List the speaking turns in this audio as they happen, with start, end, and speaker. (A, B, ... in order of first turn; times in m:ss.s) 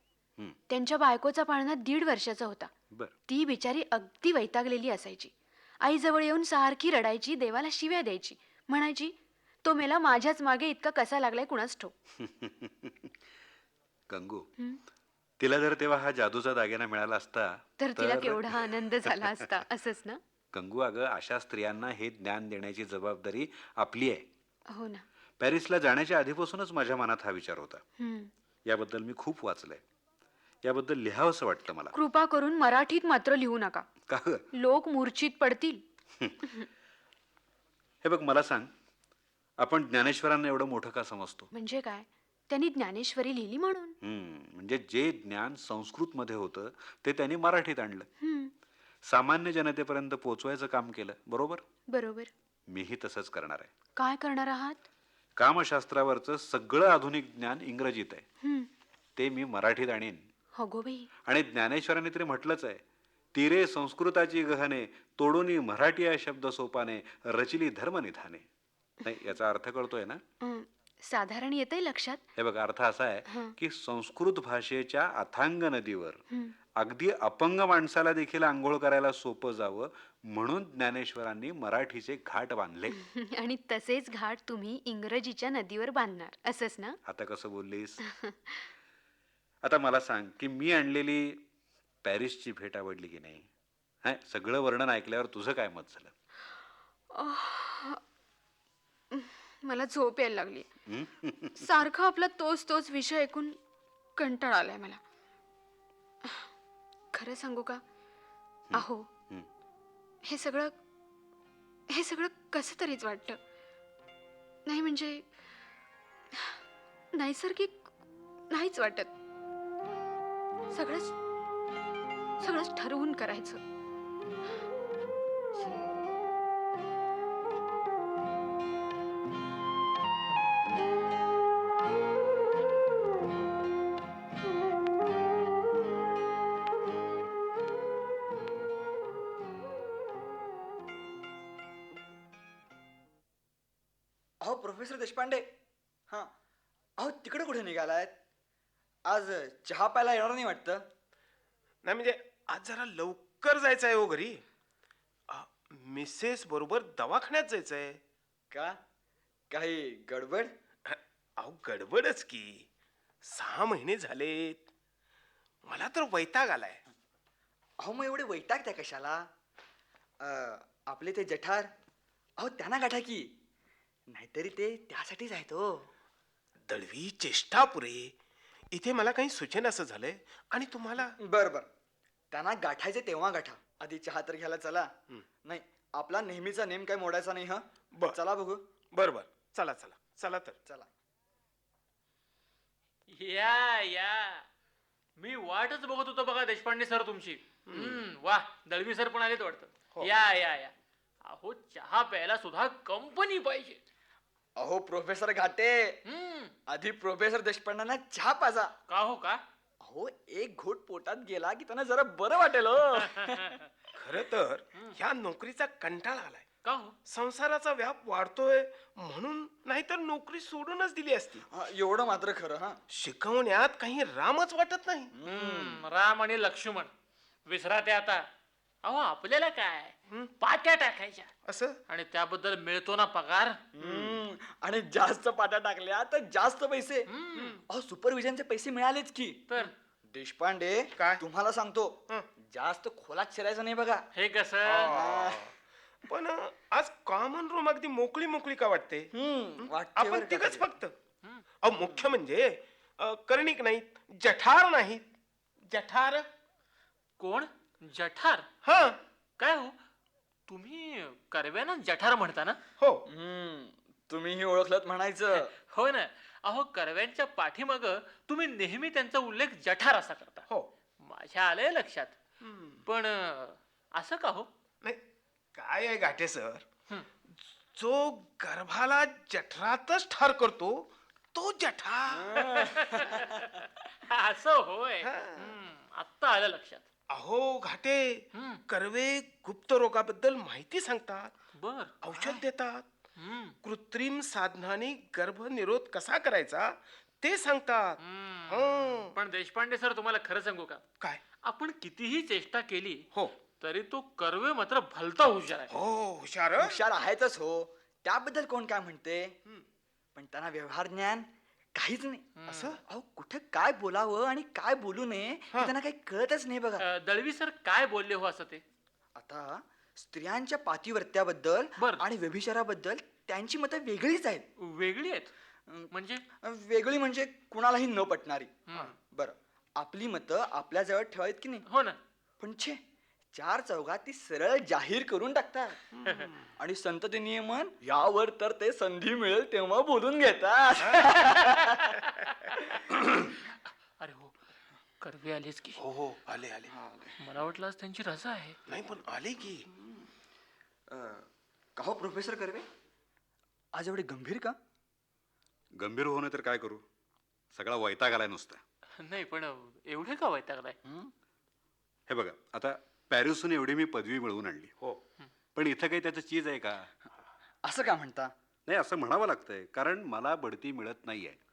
0:00.7-0:02.7 A
0:03.3-0:11.9 A
0:12.2-0:13.1 B
0:14.1-0:14.5 B
0:15.4-0:19.2 B
0:17.8-0:20.2 A
0:20.5-0:24.2 B
0:24.7-0:25.0 A
0:25.4-0:27.8 B
0:28.0-0:28.3 A
0:28.6-0:29.8 B
0:30.6-0:31.9 B
0:31.9-0:33.8 A
0:34.1-0:34.4 B
0:34.5-0:35.8 A
0:38.0-0:38.7 B
0:39.6-0:41.5 B
0:41.5-0:44.0 A
0:44.0-0:48.1 B
0:48.2-0:48.5 A
0:49.0-0:51.6 B
0:51.9-0:52.3 A
0:52.7-0:53.7 B
0:54.0-0:54.8 A
0:55.4-0:58.2 B
0:58.4-0:58.7 A
0:59.2-1:00.2 B
1:00.6-1:01.1 A
1:01.2-1:02.8 B
1:03.3-1:08.4 B
1:09.0-1:10.2 B
1:10.4-1:12.2 A
1:12.4-1:16.2 B
1:13.3-1:13.5 A
1:16.8-1:23.0 B
1:22.9-1:27.0 A
1:27.0-1:28.0 B
1:28.2-1:28.6 A
1:29.6-1:31.4 B
1:32.0-1:33.5 B
1:34.0-1:36.1 B
1:37.1-1:38.0 A
1:39.1-1:40.7 A
1:40.9-1:41.6 B
1:41.6-1:43.6 A
1:44.2-1:45.0 A
1:46.2-1:46.5 A
1:47.1-1:47.8 A
1:48.7-1:49.5 B
1:48.7-1:49.0 A
1:50.2-1:50.7 A
1:51.9-1:53.4 A
1:54.6-1:55.2 A
1:57.1-1:57.9 A
1:58.5-1:59.1 A
2:00.7-2:01.1 A
2:02.4-2:03.6 A
2:24.4-2:25.5 C
2:27.0-2:28.1 C
2:29.0-2:30.8 C
2:31.8-2:34.4 D
2:35.3-2:38.0 D
2:38.5-2:38.8 C
2:39.5-2:40.5 C
2:40.8-2:42.6 D
2:43.2-2:44.6 D
2:45.6-2:46.8 D
2:47.8-2:49.3 C
2:50.2-2:51.7 C
2:52.4-2:53.3 C
2:54.1-2:55.7 C
2:56.7-2:58.1 D
2:58.7-3:01.1 D
3:01.2-3:01.7 C
3:02.3-3:04.9 C
3:05.4-3:08.6 C
3:08.9-3:10.6 D
3:13.1-3:14.4 E
3:15.2-3:20.7 E
3:17.7-3:18.0 D
3:21.2-3:23.8 E
3:24.6-3:26.0 C
3:26.0-3:26.5 E
3:26.7-3:28.7 C
3:28.9-3:29.4 E
3:29.8-3:33.6 C
3:33.2-3:33.6 E
3:34.0-3:36.4 D
3:36.6-3:36.9 E
3:37.1-3:41.4 D
3:41.5-3:42.8 C
3:42.9-3:45.1 D
3:45.1-3:45.8 C
3:45.2-3:46.9 E
3:47.4-3:48.2 E
3:48.8-3:51.3 E
3:51.5-3:51.8 D
3:51.9-3:53.6 E
3:53.8-3:57.1 C
3:53.8-3:54.2 D
3:57.1-3:57.6 E
3:57.3-3:57.6 D
3:57.7-3:59.5 C
4:00.1-4:04.0 C
4:04.1-4:05.0 E
4:04.6-4:05.5 D
4:04.9-4:05.5 C
4:06.1-4:09.1 D
4:09.1-4:10.7 C
4:09.6-4:10.9 D
4:11.6-4:15.0 D
4:15.7-4:16.3 D
4:17.2-4:18.5 E
4:18.6-4:19.0 D
4:19.4-4:19.8 E
4:20.5-4:22.6 E
4:22.8-4:23.0 D
4:23.1-4:25.5 C
4:25.3-4:30.5 E
4:31.0-4:32.2 E
4:32.4-4:32.8 D
4:32.8-4:34.5 E
4:35.5-4:36.6 D
4:37.7-4:42.5 D
4:42.1-4:43.3 C
4:42.4-4:46.9 E
4:45.0-4:45.5 D
4:47.1-4:51.3 D
4:48.3-4:48.6 E
4:51.6-4:52.4 E
4:52.0-4:52.8 D
4:53.2-4:53.6 E
4:53.6-4:59.1 D
4:58.0-5:00.8 E
5:01.4-5:05.7 E
5:05.7-5:06.8 D
5:06.6-5:09.3 C
5:10.1-5:12.3 C
5:12.4-5:12.8 E
5:12.5-5:12.8 D
5:12.8-5:16.9 C
5:16.8-5:18.6 E
5:19.1-5:24.5 C
5:21.8-5:22.0 E
5:24.6-5:25.3 E
5:25.9-5:26.2 E
5:26.4-5:28.5 C
5:28.7-5:28.9 E
5:29.1-5:31.6 C
5:31.7-5:32.0 E
5:32.4-5:32.8 C
5:33.3-5:35.8 C
5:36.0-5:36.3 D
5:36.0-5:36.3 E
5:36.6-5:41.9 C
5:44.0-5:44.3 E
5:45.0-5:45.8 E
5:45.8-5:46.7 D
5:46.7-5:47.1 C
5:47.2-5:48.6 E
5:48.7-5:49.7 D
5:50.9-5:52.6 C
5:53.7-5:54.6 C
5:55.8-5:56.8 B
5:57.5-5:58.6 B
5:59.0-6:00.8 E
6:00.8-6:01.1 C
6:02.1-6:04.7 B
6:05.5-6:06.9 B
6:07.6-6:08.3 C
6:08.7-6:11.4 B